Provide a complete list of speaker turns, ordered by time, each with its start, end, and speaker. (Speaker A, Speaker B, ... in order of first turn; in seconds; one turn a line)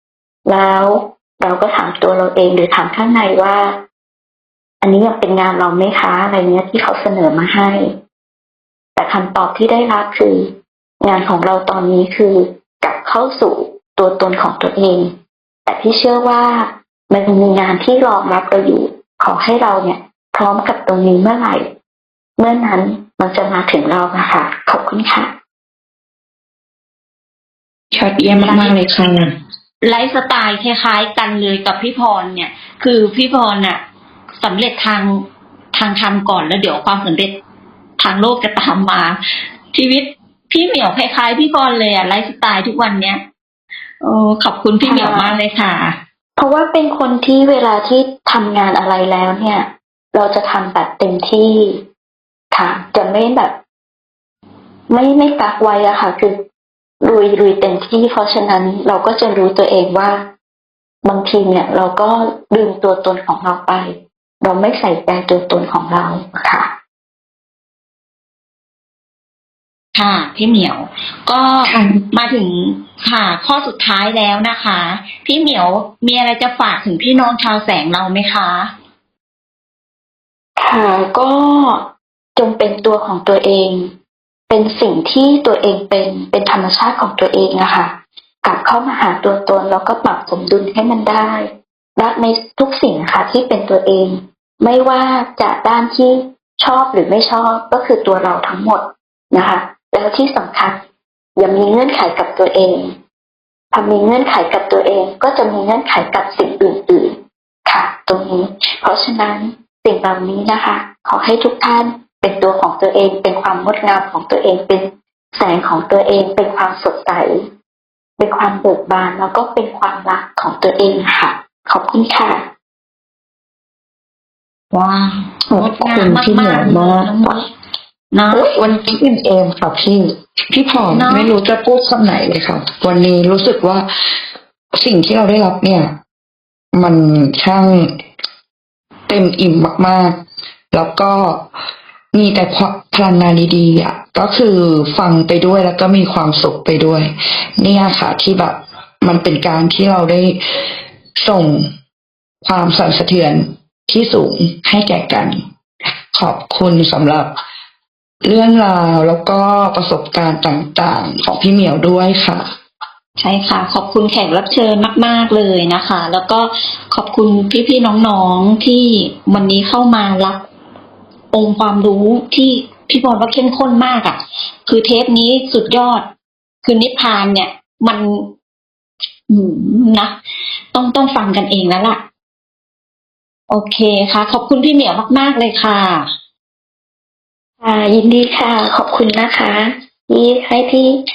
Speaker A: 0.5-3.7
Speaker A: 4.8-7.9
Speaker A: 8.9-10.5
Speaker A: 11.0-15.1
Speaker A: 15.7-21.6
Speaker A: 22.4-25.3
Speaker B: 27.9-29.3
Speaker C: 28.2-33.8
Speaker C: 34.4-35.2
Speaker C: 35.7-37.3
Speaker C: 38.0-39.2
Speaker C: 39.7-43.2
Speaker C: 44.0-45.9
Speaker A: 44.8-45.4
Speaker A: 46.4-51.8
Speaker A: 52.5-53.5
Speaker A: 54.9-56.3
Speaker A: 57.0-60.2
Speaker A: 61.0-66.7
Speaker C: 69.9-78.7
Speaker A: 80.6-81.8
Speaker A: 82.3-83.9
Speaker A: 84.5-87.9
Speaker A: 88.4-91.5
Speaker A: 92.0-100.8
Speaker A: 101.4-102.9
Speaker A: 103.7-107.1
Speaker A: 107.7-117.3
Speaker A: 118.2-122.4
Speaker C: 124.7-127.5
Speaker B: 125.5-127.2
Speaker C: 128.1-128.6
Speaker B: 128.3-133.8
Speaker C: 130.9-131.3
Speaker B: 134.8-135.9
Speaker B: 136.7-137.8
Speaker B: 139.1-140.1
Speaker B: 140.7-141.4
Speaker B: 142.1-150.3
Speaker B: 151.2-151.6
Speaker B: 152.4-155.3
Speaker B: 156.1-157.3
Speaker B: 158.2-162.4
Speaker C: 163.2-170.4
Speaker C: 171.3-176.0
Speaker C: 176.6-178.1
Speaker C: 179.3-180.1
Speaker C: 180.7-182.0
Speaker C: 183.5-186.0
Speaker A: 187.6-190.9